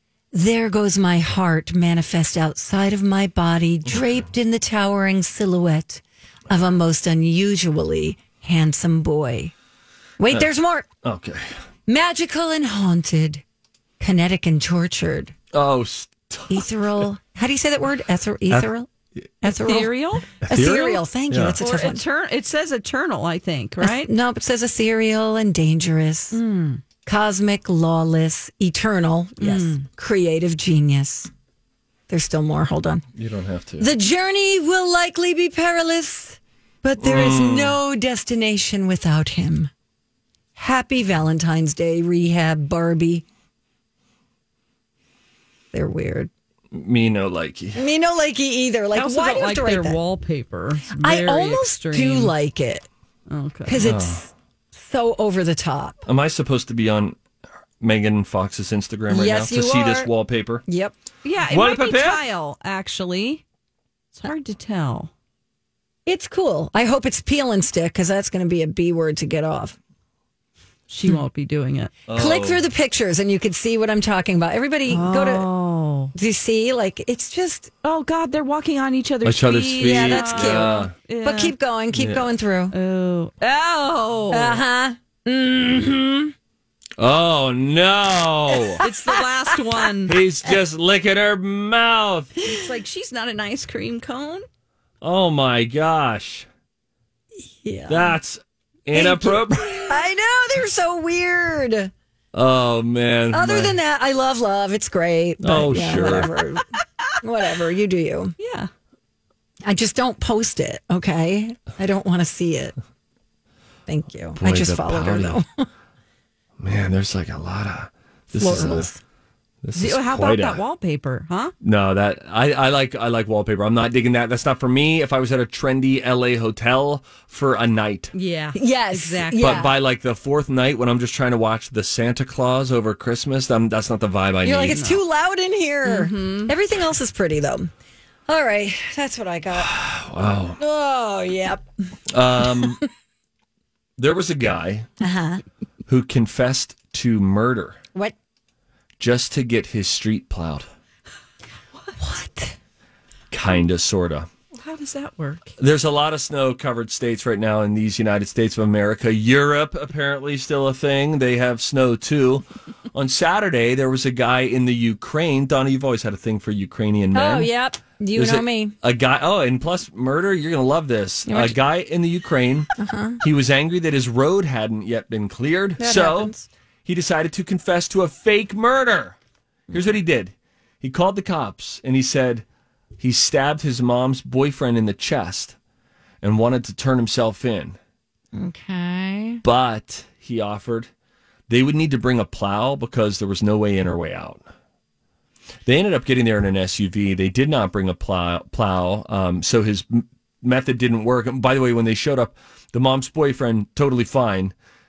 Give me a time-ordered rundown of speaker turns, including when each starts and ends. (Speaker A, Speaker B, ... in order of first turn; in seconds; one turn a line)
Speaker A: 0.3-9.5
Speaker A: 10.2-10.9
Speaker B: 11.0-11.5
Speaker A: 11.9-13.4
Speaker A: 14.0-15.3
Speaker B: 15.5-16.7
Speaker A: 16.5-18.9
Speaker B: 18.5-19.3
Speaker A: 19.4-22.0
Speaker C: 19.4-20.4
Speaker B: 20.4-21.6
Speaker C: 21.6-24.1
Speaker A: 23.8-26.4
Speaker C: 26.3-26.8
Speaker A: 27.0-31.3
Speaker C: 29.4-29.9
Speaker A: 32.1-33.0
Speaker B: 33.1-33.9
Speaker A: 33.8-39.7
Speaker B: 37.0-37.8
Speaker A: 40.5-43.2
Speaker A: 45.7-46.3
Speaker B: 46.7-47.9
Speaker A: 47.7-50.0
Speaker C: 48.9-52.3
Speaker A: 50.9-52.9
Speaker C: 53.3-53.8
Speaker A: 53.6-56.0
Speaker B: 53.8-54.2
Speaker B: 56.0-57.2
Speaker B: 57.8-60.6
Speaker A: 59.1-60.1
Speaker A: 60.7-61.0
Speaker C: 61.2-63.4
Speaker B: 61.5-62.2
Speaker C: 64.1-65.1
Speaker A: 66.0-69.8
Speaker C: 70.9-71.9
Speaker B: 72.1-72.6
Speaker A: 72.1-75.5
Speaker C: 74.9-76.1
Speaker A: 76.1-77.7
Speaker C: 77.8-81.5
Speaker B: 79.2-80.9
Speaker A: 79.8-82.7
Speaker B: 81.9-82.2
Speaker C: 82.7-84.6
Speaker A: 84.3-86.3
Speaker B: 87.0-88.8
Speaker C: 88.8-90.2
Speaker A: 88.8-89.2
Speaker B: 90.0-92.3
Speaker C: 92.4-94.4
Speaker B: 95.0-96.5
Speaker A: 97.4-98.2
Speaker B: 97.9-100.0
Speaker A: 98.9-101.9
Speaker B: 102.3-103.8
Speaker A: 103.3-106.6
Speaker B: 105.4-106.3
Speaker A: 107.2-108.3
Speaker C: 108.4-108.7
Speaker A: 109.6-112.7
Speaker A: 113.9-115.7
Speaker B: 114.4-115.4
Speaker B: 116.6-118.9
Speaker A: 118.3-119.0
Speaker B: 119.6-120.6
Speaker C: 119.7-121.5
Speaker B: 121.6-128.1
Speaker C: 128.1-129.7
Speaker A: 128.5-129.7
Speaker B: 129.4-134.9
Speaker A: 134.4-137.7
Speaker C: 134.6-135.0
Speaker C: 135.8-136.5
Speaker A: 138.3-139.7
Speaker B: 139.5-140.6
Speaker A: 140.6-141.7
Speaker B: 142.1-142.8
Speaker B: 144.0-144.9
Speaker A: 145.0-145.4
Speaker B: 145.9-147.8
Speaker B: 149.0-150.6
Speaker A: 152.0-152.6
Speaker B: 153.3-154.3
Speaker C: 154.5-155.6
Speaker B: 155.6-167.5
Speaker A: 167.1-168.7
Speaker B: 168.1-172.7
Speaker A: 171.3-171.6
Speaker A: 172.8-173.2
Speaker B: 173.2-176.3
Speaker A: 175.8-176.5
Speaker B: 176.8-179.2
Speaker B: 179.7-182.4
Speaker B: 183.0-185.6
Speaker B: 186.2-187.8
Speaker A: 188.3-189.4
Speaker B: 189.4-190.9
Speaker B: 191.5-194.4
Speaker B: 195.7-204.5